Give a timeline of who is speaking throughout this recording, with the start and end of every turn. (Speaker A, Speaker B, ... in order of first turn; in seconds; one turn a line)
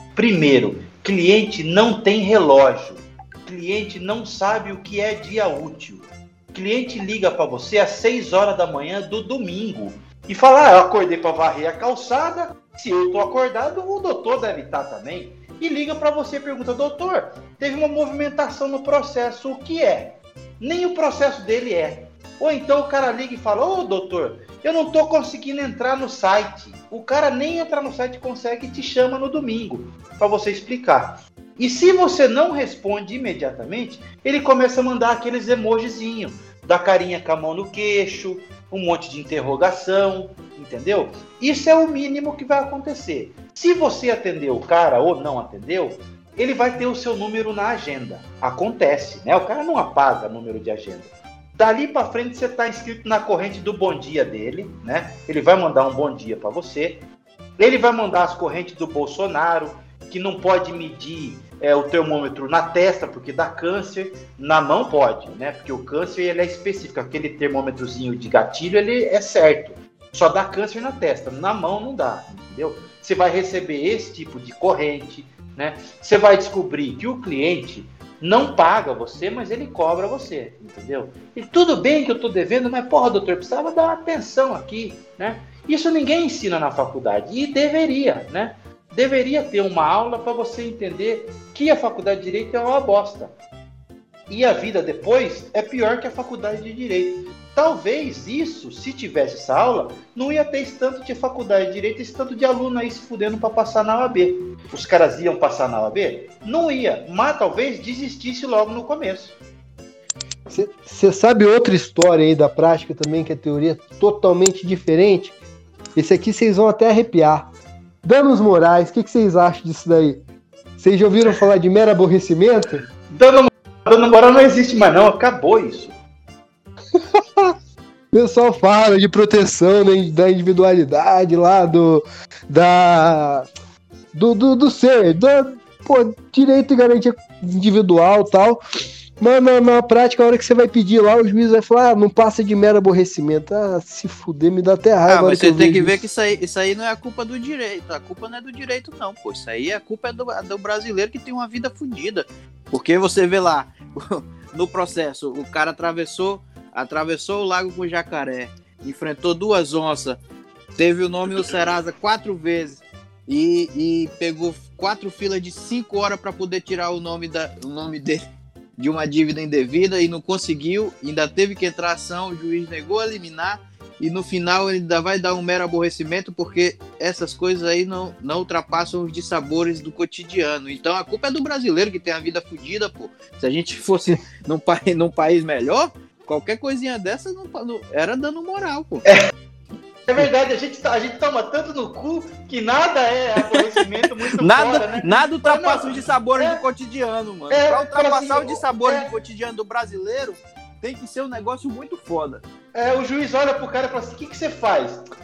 Speaker A: 0.1-57.0
Speaker A: 57.6-93.3
Speaker A: 94.3-109.4
Speaker B: 110.5-115.3
Speaker B: 116.0-117.5
Speaker B: 118.0-120.2
Speaker B: 120.8-122.8
Speaker A: 123.1-125.9
Speaker B: 128.1-133.4
Speaker B: 134.1-138.6
Speaker B: 139.2-146.0
Speaker C: 145.1-160.2
Speaker C: 160.8-168.2
Speaker C: 168.8-189.0
Speaker A: 190.1-196.6
Speaker C: 194.4-202.4
Speaker A: 197.5-199.1
Speaker A: 202.7-205.0